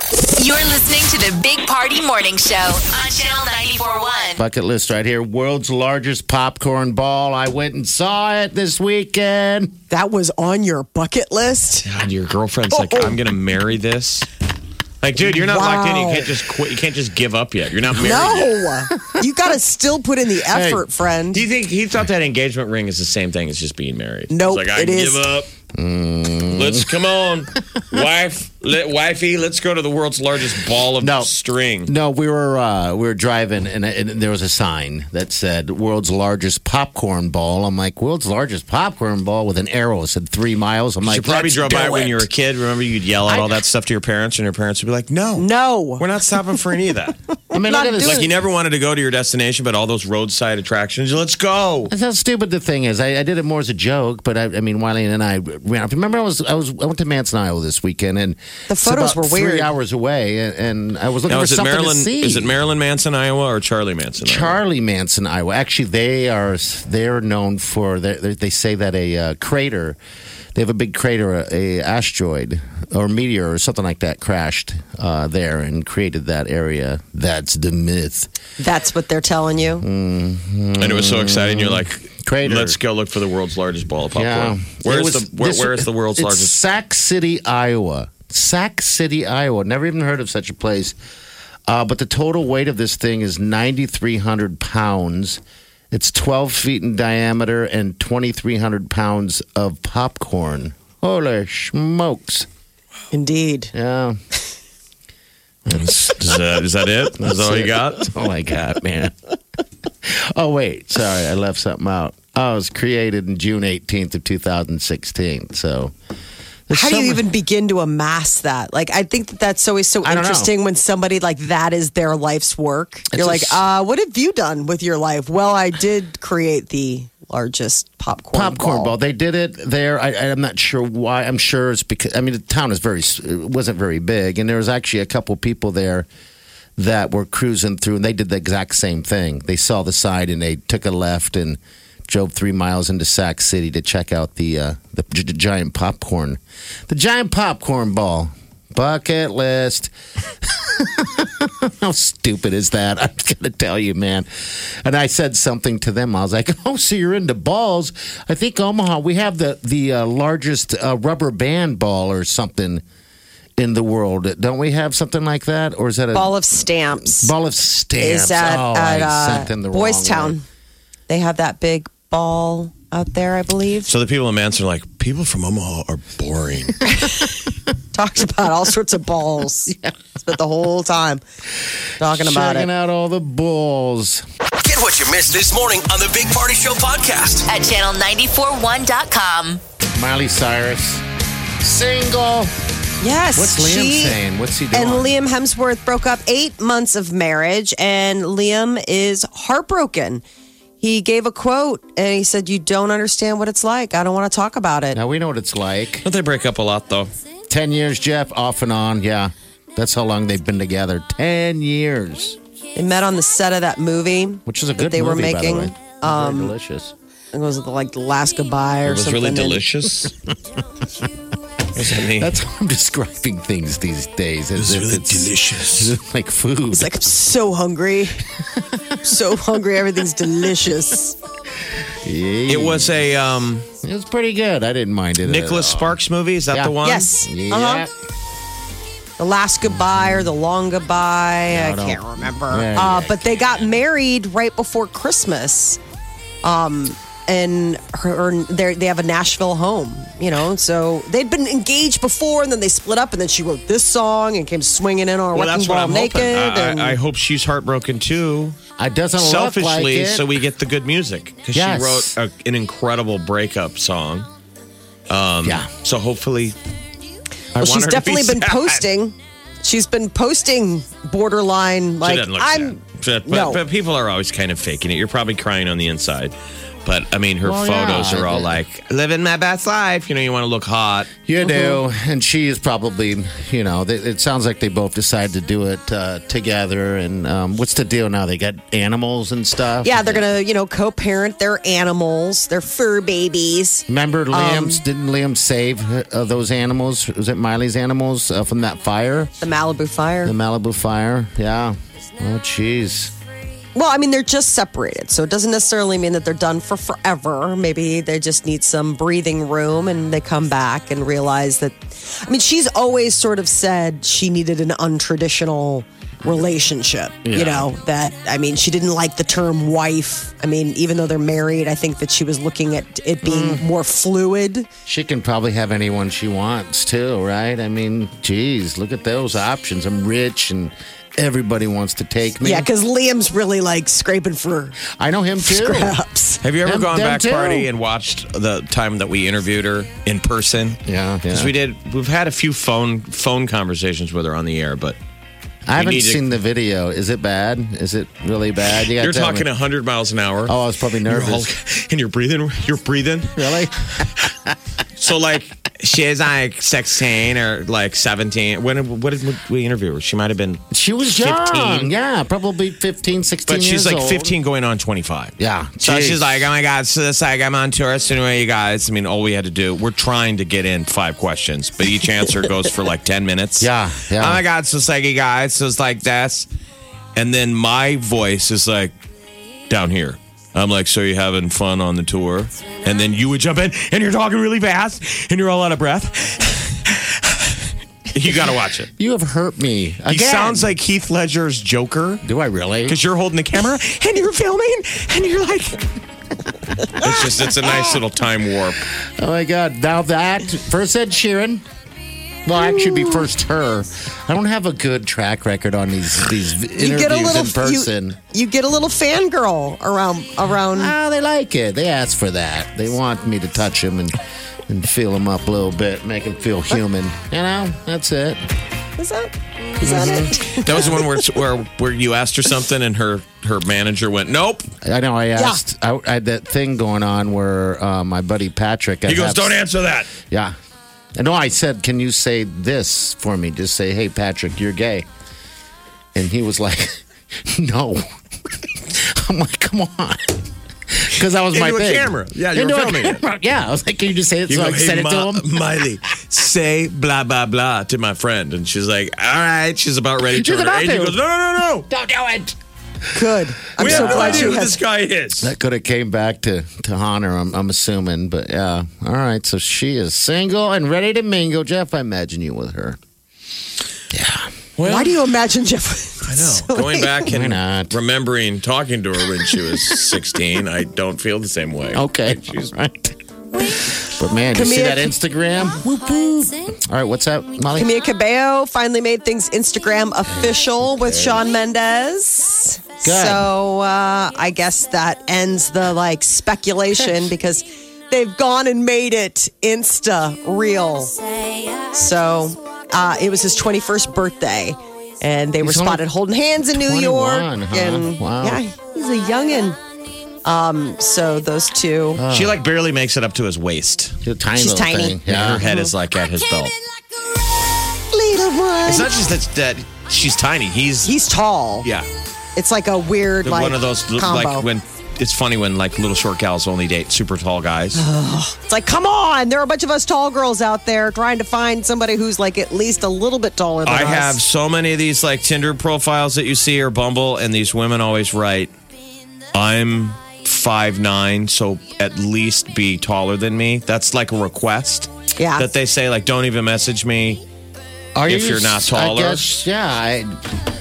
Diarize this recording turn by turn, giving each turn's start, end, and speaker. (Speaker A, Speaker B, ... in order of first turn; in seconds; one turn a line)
Speaker A: 0.3-4.4
Speaker B: 4.4-9.8
Speaker C: 9.9-11.9
Speaker D: 11.8-14.3
Speaker C: 12.7-13.2
Speaker D: 15.0-18.6
Speaker C: 15.2-16.3
Speaker C: 17.9-21.4
Speaker B: 20.5-20.8
Speaker D: 21.3-25.5
Speaker C: 24.3-25.2
Speaker B: 25.7-26.9
Speaker D: 26.5-31.9
Speaker B: 31.0-31.3
Speaker B: 31.8-42.2
Speaker D: 41.0-47.2
Speaker B: 43.2-43.6
Speaker C: 45.4-46.0
Speaker B: 47.5-48.3
Speaker C: 47.5-48.2
Speaker D: 48.0-51.9
Speaker B: 51.9-62.5
Speaker C: 58.7-59.7
Speaker D: 61.3-64.6
Speaker B: 64.2-70.0
Speaker B: 70.5-78.3
Speaker C: 78.6-79.8
Speaker B: 79.8-82.8
Speaker D: 80.8-86.5
Speaker B: 84.1-91.0
Speaker B: 91.7-102.5
Speaker C: 103.1-103.7
Speaker B: 103.7-104.2
Speaker B: 105.7-106.5
Speaker D: 105.7-108.1
Speaker B: 107.2-109.2
Speaker B: 110.0-115.9
Speaker B: 116.7-117.2
Speaker C: 116.7-128.9
Speaker B: 120.0-120.5
Speaker B: 123.1-123.6
Speaker B: 128.3-136.1
Speaker B: 136.8-162.8
Speaker B: 163.6-170.4
Speaker C: 166.1-167.3
Speaker C: 168.0-170.4
Speaker C: 171.1-173.9
Speaker D: 173.9-176.8
Speaker C: 176.8-177.4
Speaker C: 177.9-181.2
Speaker C: 182.0-182.7
Speaker B: 182.0-184.2
Speaker E: 184.6-187.5
Speaker A: 187.5-189.6
Speaker B: 190.0-191.0
Speaker B: 191.6-192.5
Speaker C: 193.0-194.2
Speaker B: 193.3-195.1
Speaker C: 194.7-200.2
Speaker C: 200.8-205.0
Speaker B: 204.9-206.1
Speaker D: 206.0-207.1
Speaker B: 207.5-212.4
Speaker C: 212.7-216.5
Speaker B: 214.4-216.9
Speaker C: 217.3-219.6
Speaker D: 218.8-220.1
Speaker B: 220.0-220.3
Speaker D: 221.7-222.4
Speaker B: 222.0-226.9
Speaker D: 224.6-225.9
Speaker C: 226.7-228.3
Speaker C: 229.0-231.2
Speaker B: 232.0-232.9
Speaker D: 232.5-233.7
Speaker B: 233.8-236.0
Speaker D: 235.2-237.1
Speaker B: 236.5-237.9
Speaker C: 236.8-237.9
Speaker C: 239.2-245.8
Speaker B: 239.8-240.3
Speaker B: 241.5-243.2
Speaker C: 246.4-257.0
Speaker D: 255.3-258.6
Speaker B: 258.8-260.4
Speaker D: 259.2-264.3
Speaker B: 261.5-262.1
Speaker D: 265.1-266.6
Speaker B: 265.4-265.7
Speaker D: 267.6-268.8
Speaker C: 267.6-273.6
Speaker D: 272.0-276.3
Speaker D: 276.9-281.1
Speaker B: 277.4-278.6
Speaker B: 281.2-290.3
Speaker C: 281.4-281.8
Speaker C: 289.8-294.8
Speaker B: 293.9-299.3
Speaker C: 299.4-300.3
Speaker B: 300.2-303.1
Speaker C: 303.7-324.7
Speaker B: 317.2-317.7
Speaker B: 323.2-323.6
Speaker B: 324.9-332.7
Speaker C: 332.4-334.8
Speaker B: 334.8-336.0
Speaker C: 335.4-336.4
Speaker D: 336.4-340.8
Speaker B: 336.6-337.7
Speaker B: 340.8-341.5
Speaker D: 341.3-345.0
Speaker B: 345.7-349.5
Speaker D: 345.8-346.3
Speaker D: 349.0-350.5
Speaker B: 350.4-351.5
Speaker D: 351.1-354.3
Speaker B: 353.4-354.5
Speaker D: 355.0-361.9
Speaker B: 360.7-364.3
Speaker D: 363.5-376.5
Speaker B: 365.4-366.5
Speaker B: 373.6-374.4
Speaker D: 377.1-378.9
Speaker D: 379.7-388.9
Speaker B: 389.0-390.7
Speaker D: 390.1-392.2
Speaker B: 392.2-393.0
Speaker D: 392.9-395.9
Speaker D: 397.0-398.9
Speaker B: 399.0-401.6
Speaker B: 402.4-408.2
Speaker C: 406.8-410.9
Speaker B: 410.7-414.2
Speaker B: 414.7-418.4
Speaker C: 419.0-421.1
Speaker B: 419.8-420.4
Speaker D: 420.4-424.7
Speaker B: 424.8-429.6
Speaker C: 425.4-425.6
Speaker D: 429.1-430.1
Speaker B: 430.3-430.5
Speaker B: 431.1-435.1
Speaker B: 436.1-438.0
Speaker B: 438.7-445.9
Speaker D: 441.5-443.2
Speaker D: 444.5-451.9
Speaker B: 450.2-451.2
Speaker B: 451.9-452.5
Speaker C: 453.1-454.8
Speaker D: 453.8-455.5
Speaker B: 453.8-454.6
Speaker B: 455.4-463.0
Speaker B: 464.1-464.5
Speaker D: 464.8-465.2
Speaker C: 464.8-467.2
Speaker D: 466.2-472.7
Speaker B: 467.3-468.0
Speaker B: 471.9-477.9
Speaker C: 474.5-475.1
Speaker C: 477.7-491.1
Speaker B: 480.3-481.4
Speaker B: 483.0-483.5
Speaker C: 491.9-499.8
Speaker B: 495.6-496.0
Speaker B: 496.7-498.6
Speaker C: 500.4-502.2
Speaker B: 502.1-502.6
Speaker D: 502.3-504.2
Speaker B: 504.2-505.6
Speaker C: 504.6-505.9
Speaker D: 505.2-506.7
Speaker C: 508.1-509.1
Speaker D: 508.9-511.1
Speaker C: 511.0-511.9
Speaker C: 512.5-514.6
Speaker D: 513.4-518.0
Speaker C: 517.9-524.4
Speaker D: 523.9-528.7
Speaker D: 529.5-537.4
Speaker C: 535.4-535.7
Speaker B: 538.1-540.7
Speaker D: 538.3-539.6